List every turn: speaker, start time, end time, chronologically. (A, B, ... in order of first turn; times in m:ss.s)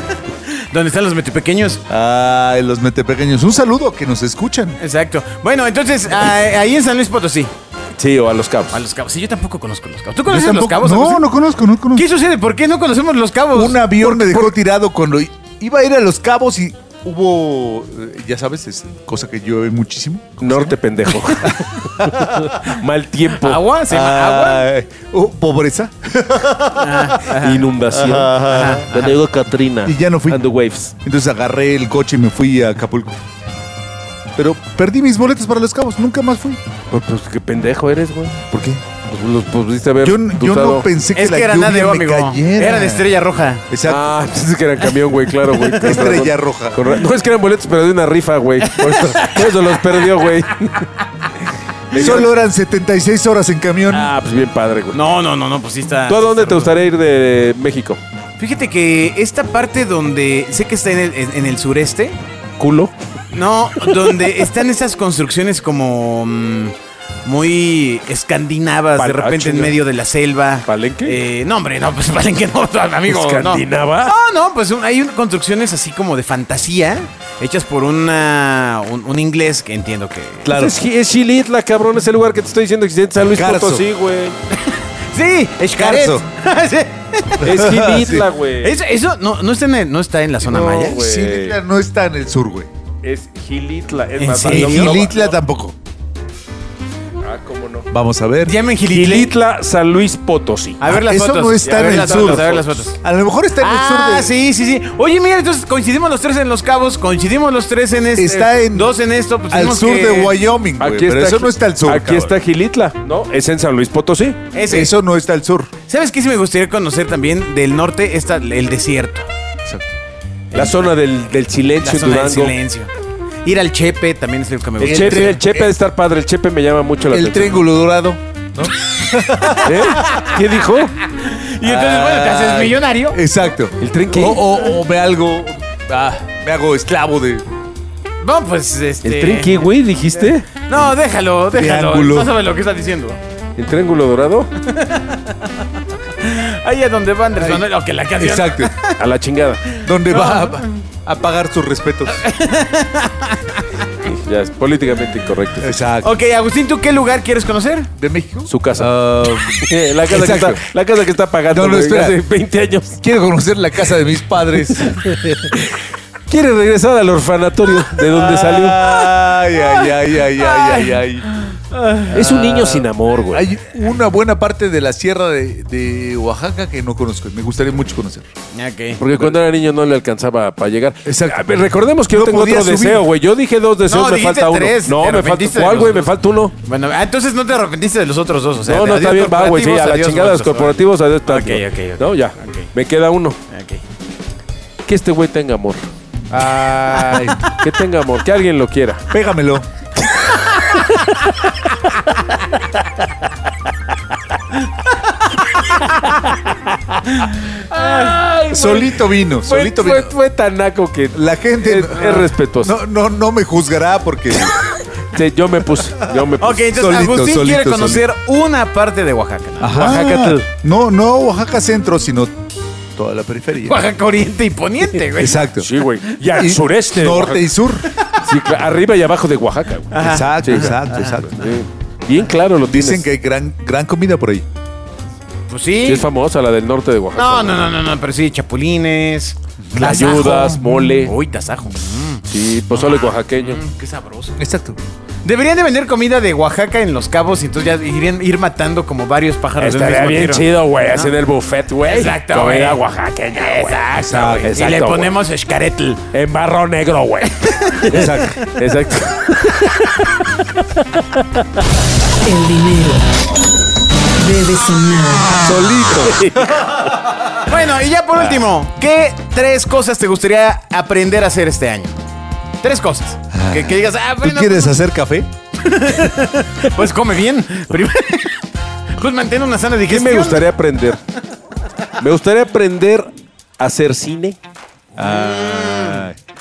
0:00.7-0:01.8 A
0:01.9-0:04.8 B
0:04.8-0:07.5 A
0:08.0-0:08.8 C
0:08.7-0:11.3 A
0:10.3-0:12.1 B
0:11.9-0:14.2 A
0:13.5-0:22.5 B
0:14.2-0:14.5 C
0:20.4-0:23.6 C
0:23.4-0:24.7 A
0:23.9-0:27.4 B
0:26.8-0:27.7 A
0:27.3-0:30.9 C
0:27.9-0:28.9 B
0:28.4-0:29.2 A
0:29.8-0:30.4 B
0:31.0-0:33.2 B
0:34.4-0:36.6 B
0:36.9-0:38.4 C
0:38.5-0:38.8 B
0:39.1-0:40.9 C
0:40.0-0:43.1 B
0:41.1-0:43.6 A
0:43.7-0:44.1 B
0:43.9-0:50.9 C
0:45.8-0:46.9 B
0:48.6-0:50.0 A
0:51.9-0:52.3 C
0:51.9-0:54.1 B
0:53.9-0:55.0 C
0:54.9-0:56.7 A
0:56.1-0:58.0 C
0:58.4-1:02.2 A
1:02.6-1:02.9 C
1:03.3-1:20.5 A
1:03.8-1:04.3 C
1:09.0-1:09.8 C
1:10.7-1:11.2 C
1:13.1-1:14.1 C
1:20.4-1:20.8 B
1:20.5-1:24.4 C
1:23.3-1:23.8 B
1:25.1-1:27.6 A
1:25.8-1:26.3 B
1:27.4-1:28.3 B
1:27.4-1:28.8 C
1:28.6-1:31.0 A
1:30.4-1:31.6 C
1:30.8-1:32.7 B
1:33.0-1:35.4 C
1:34.2-1:35.0 A
1:34.4-1:35.8 B
1:37.2-1:37.9 C
1:37.9-1:38.6 B
1:38.4-1:39.3 A
1:38.9-1:40.9 C
1:40.8-1:43.0 A
1:40.9-1:44.3 B
1:41.6-1:42.8 C
1:43.6-1:50.4 A
1:48.2-1:49.0 B
1:49.5-1:52.4 B
1:50.8-1:54.4 C
1:54.5-1:54.9 A
1:54.7-1:55.7 B
1:55.9-1:59.3 A
1:59.6-1:59.9 B
2:00.5-2:00.8 A
2:00.5-2:02.6 C
2:01.8-2:02.9 A
2:03.4-2:05.5 A
2:04.8-2:07.7 C
2:04.8-2:05.7 B
2:07.1-2:10.0 B
2:09.4-2:10.4 A
2:09.6-2:11.0 C
2:11.1-2:13.2 A
2:11.6-2:17.4 B
2:13.8-2:14.6 C
2:18.2-2:19.7 A
2:19.0-2:20.5 C
2:20.6-2:23.2 A
2:21.5-2:22.3 B
2:23.6-2:24.5 C
2:24.6-2:25.5 A
2:26.2-2:29.0 A
2:28.2-2:28.7 B
2:29.0-2:29.6 C
2:29.8-2:30.8 A
2:29.8-2:32.2 B
2:32.1-2:33.8 A
2:34.0-2:35.8 C
2:35.6-2:36.1 B
2:36.0-2:37.9 A
2:38.0-2:40.6 B
2:38.5-2:43.0 C
2:41.5-2:42.2 B
2:43.0-2:45.0 B
2:44.7-2:48.9 C
2:48.1-2:51.3 B
2:49.5-2:52.1 A
2:52.1-2:53.5 C
2:52.1-2:58.3 B
2:58.5-2:59.0 A
2:59.0-3:06.5 C
3:01.0-3:01.6 B
3:02.1-3:03.1 B
3:03.9-3:12.7 A
3:08.6-3:13.4 C
3:13.5-3:13.8 A
3:14.9-3:15.9 C
3:16.3-3:17.5 B
3:17.4-3:19.0 C
3:19.1-3:19.7 B
3:27.1-3:28.1 A
3:27.7-3:32.8 C
3:28.5-3:30.1 B
3:31.1-3:34.6 B
3:35.1-3:36.7 C
3:36.4-3:40.1 A
3:36.7-3:38.0 B
3:39.6-3:43.8 B
3:39.8-3:40.4 C
3:43.7-3:45.5 A
3:45.1-3:45.7 B
3:45.6-3:47.6 C
3:46.3-3:47.9 B
3:48.2-3:53.1 C
3:49.9-3:51.1 A
3:50.0-3:51.4 B
3:52.7-3:54.5 B
3:55.5-3:56.1 A
3:55.9-3:57.7 C
3:57.2-4:04.4 A
3:59.6-4:01.0 B
3:59.8-4:01.2 C
4:02.3-4:03.6 C
4:04.4-4:04.8 B
4:05.2-4:11.1 A
4:09.6-4:15.2 C
4:11.8-4:16.1 A
4:14.0-4:14.5 B
4:16.1-4:20.4 C
4:17.4-4:18.5 A
4:17.9-4:18.4 B
4:22.2-4:23.1 D
4:24.2-4:25.4 D
4:25.4-4:26.4 B
4:25.9-4:26.7 C
4:27.3-4:32.0 A
4:32.6-4:34.7 A
4:33.3-4:35.3 B
4:35.6-4:38.4 A
4:39.0-4:40.5 A
4:39.9-4:41.0 C
4:42.0-4:44.4 C
4:45.0-4:46.2 B
4:45.0-4:46.1 A